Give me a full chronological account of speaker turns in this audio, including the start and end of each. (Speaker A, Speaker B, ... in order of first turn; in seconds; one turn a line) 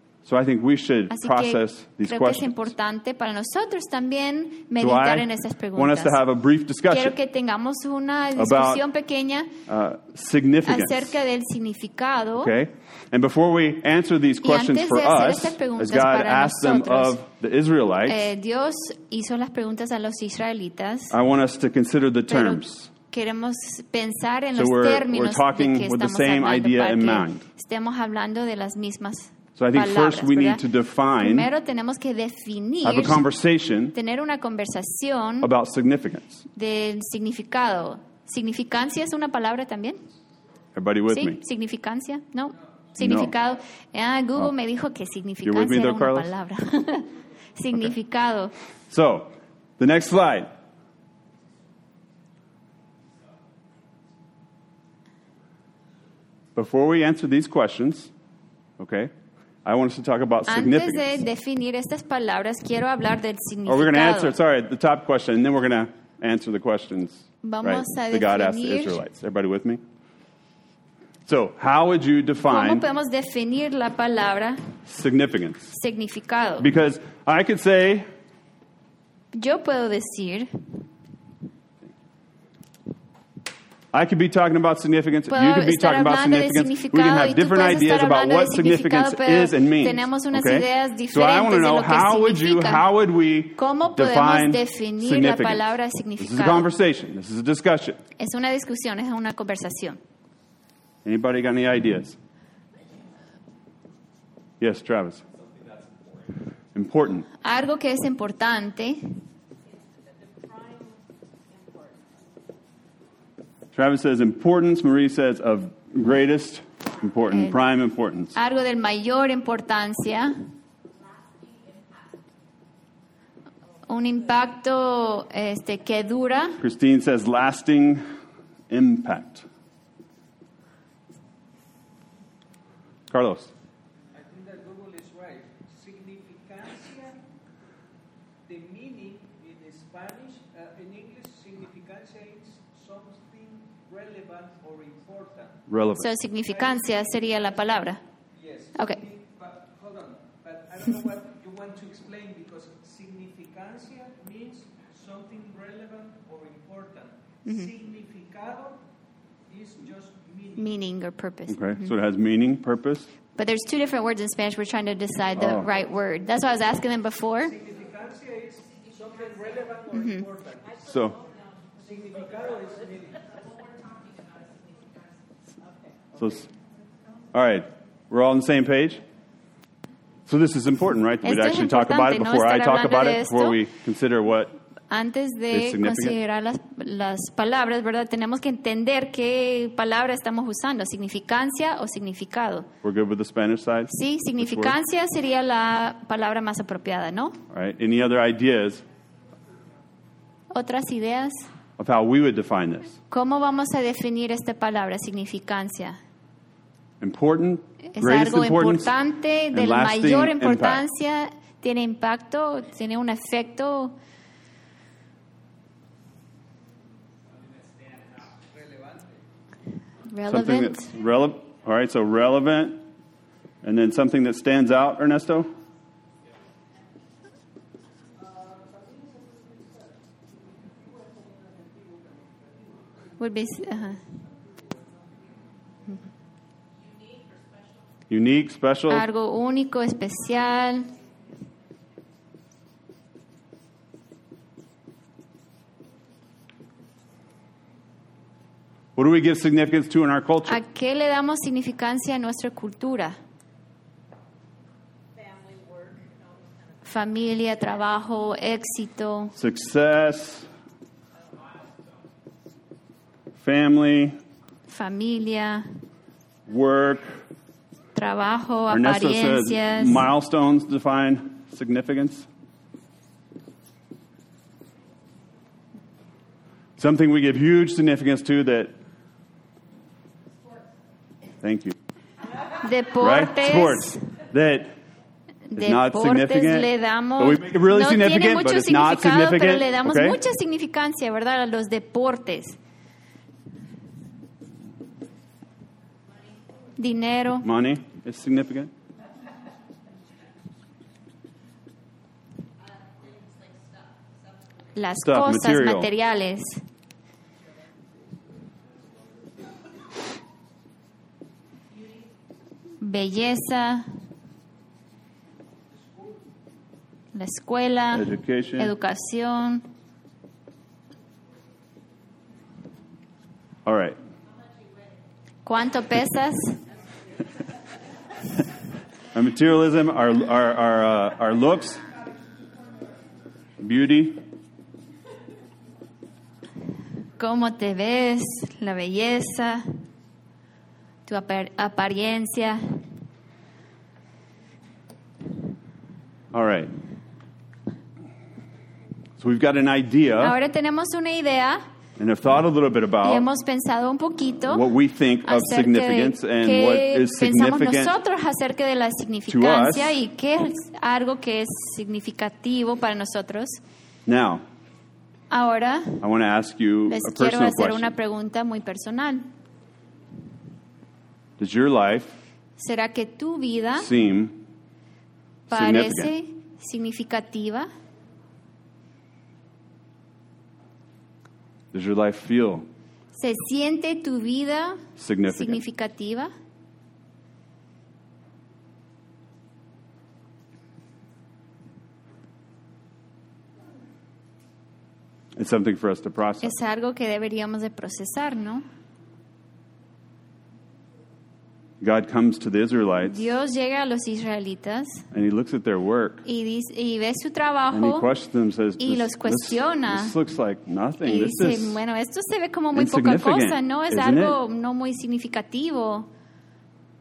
Speaker A: 0.2-2.7
Speaker B: 1.1-6.2
Speaker A: 4.8-7.2
Speaker B: 6.9-9.5
Speaker A: 8.3-8.8
Speaker A: 9.7-11.1
Speaker B: 10.7-12.5
Speaker A: 12.4-18.3
Speaker B: 14.4-17.1
Speaker B: 18.1-21.1
Speaker A: 21.1-22.9
Speaker B: 22.3-30.6
Speaker A: 24.5-27.4
Speaker A: 29.6-31.5
Speaker B: 31.2-33.2
Speaker A: 32.8-33.9
Speaker B: 33.9-35.5
Speaker A: 35.4-36.4
Speaker B: 36.5-40.0
Speaker A: 40.7-41.4
Speaker B: 41.1-48.5
Speaker A: 43.0-43.3
Speaker A: 45.4-46.3
Speaker A: 48.9-50.5
Speaker A: 56.5-58.1
Speaker A: 58.8-59.1
Speaker A: 59.6-61.2
Speaker B: 60.5-64.3
Speaker A: 63.6-69.8
Speaker B: 67.4-69.0
Speaker A: 71.2-72.8
Speaker B: 72.4-74.8
Speaker A: 74.8-75.7
Speaker B: 75.7-76.7
Speaker A: 76.6-78.1
Speaker B: 79.3-80.5
Speaker A: 83.9-98.0
Speaker B: 85.3-92.8
Speaker B: 93.5-96.7
Speaker B: 98.2-100.0
Speaker A: 101.0-102.2
Speaker A: 104.6-105.2
Speaker A: 106.7-107.3
Speaker B: 107.4-109.2
Speaker A: 113.7-118.3
Speaker B: 117.3-117.6
Speaker B: 118.3-120.4
Speaker B: 123.9-126.6
Speaker A: 126.6-128.0
Speaker A: 128.7-129.5
Speaker A: 133.1-133.5
Speaker C: 134.1-137.2
Speaker C: 138.5-145.6
Speaker A: 145.7-146.1
Speaker B: 145.9-148.0
Speaker C: 146.6-147.4
Speaker C: 148.3-158.8
Speaker B: 148.8-149.0
Speaker B: 157.4-157.7
Speaker C: 159.5-160.8
Speaker B: 160.6-161.9
Speaker A: 161.5-163.1
Speaker B: 163.3-167.6
Speaker A: 165.4-165.7
Speaker C: 167.5-170.8
Speaker B: 169.9-170.2
Speaker A: 170.8-171.2
Speaker C: 171.6-173.4
Speaker A: 176.2-176.5
Speaker A: 177.3-179.0
Speaker A: 180.2-184.6
Speaker B: 181.2-183.6
Speaker B: 184.9-192.7
Speaker A: 185.5-186.2
Speaker A: 192.8-194.8
Speaker B: 193.9-197.4
Speaker A: 197.5-198.8
Speaker B: 200.5-201.5
Speaker A: 201.8-203.0
Speaker B: 203.1-206.0
Speaker A: 207.0-208.9
Speaker B: 207.9-213.9
Speaker A: 209.5-210.8
Speaker C: 218.5-219.1
Speaker B: 220.1-220.9
Speaker A: 220.3-222.8
Speaker A: 223.6-225.5
Speaker C: 228.2-229.9
Speaker C: 230.6-232.8
Speaker B: 233.2-234.0
Speaker A: 238.1-239.1
Speaker B: 238.9-240.9
Speaker A: 248.9-250.6
Speaker B: 250.5-253.2
Speaker B: 256.8-259.3
Speaker A: 259.4-260.5
Speaker A: 263.4-264.2
Speaker B: 264.7-265.6
Speaker A: 266.5-267.2
Speaker B: 267.9-270.1
Speaker A: 268.7-272.3
Speaker A: 276.8-278.7
Speaker A: 281.4-281.7
Speaker B: 282.6-284.0
Speaker A: 283.0-284.7
Speaker B: 285.5-292.6
Speaker A: 285.6-290.2
Speaker B: 296.8-297.4
Speaker A: 297.4-298.7
Speaker B: 304.7-306.6
Speaker A: 305.0-305.9
Speaker B: 312.8-313.9
Speaker B: 317.1-319.7
Speaker A: 317.9-318.7
Speaker A: 323.6-324.0
Speaker B: 325.4-326.6
Speaker A: 329.1-331.8
Speaker A: 333.6-334.2
Speaker B: 337.2-339.7
Speaker B: 341.1-342.6
Speaker A: 346.3-346.7
Speaker A: 349.2-350.4
Speaker B: 350.2-351.6
Speaker A: 352.0-353.3
Speaker B: 353.0-354.7
Speaker A: 354.5-357.9
Speaker B: 355.2-363.6
Speaker A: 359.3-360.0
Speaker A: 364.1-364.4
Speaker B: 365.3-366.0
Speaker A: 366.0-367.9
Speaker B: 366.9-369.3
Speaker A: 371.4-372.1
Speaker B: 372.6-373.9
Speaker A: 373.8-374.4
Speaker A: 375.5-376.1
Speaker B: 375.5-377.7
Speaker A: 381.7-382.7
Speaker B: 383.1-386.3
Speaker A: 385.0-385.6
Speaker A: 395.4-396.6
Speaker B: 396.4-398.6
Speaker A: 401.8-403.2
Speaker B: 403.0-405.0
Speaker A: 405.1-406.2
Speaker B: 406.2-408.1
Speaker A: 407.7-411.8
Speaker B: 408.8-410.1
Speaker B: 411.0-416.1
Speaker A: 412.7-414.4